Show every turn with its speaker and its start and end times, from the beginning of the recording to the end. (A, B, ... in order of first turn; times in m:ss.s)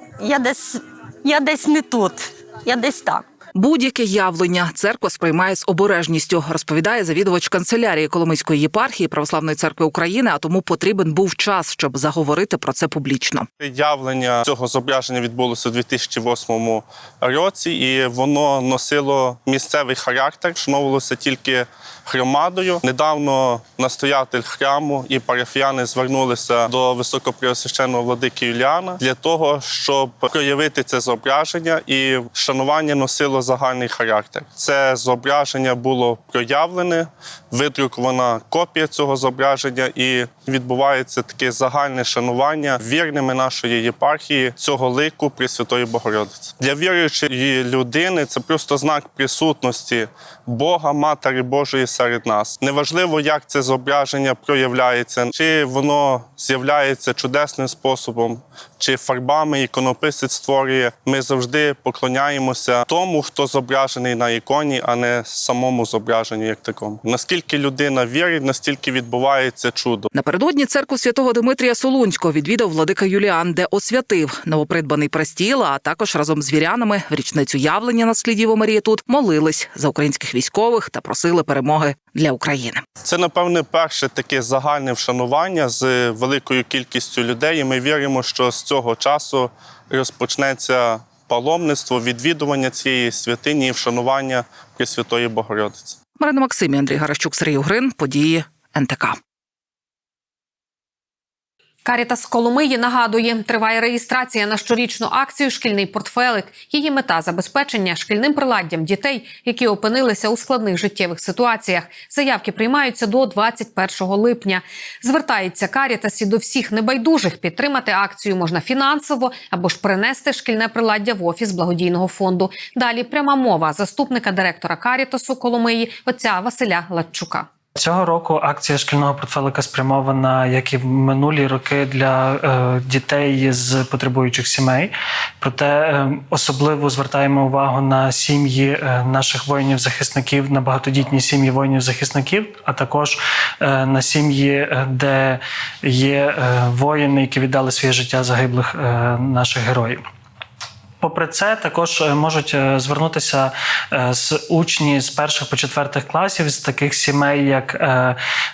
0:00.2-0:03.2 A
0:03.5-0:13.5 B
0:13.6-1:10.1 C
1:10.1-1:22.8 B
1:23.0-1:36.0 C
1:36.2-1:39.2 B
1:41.8-2:07.5 D
2:07.8-2:30.0 E
2:31.0-2:38.2 E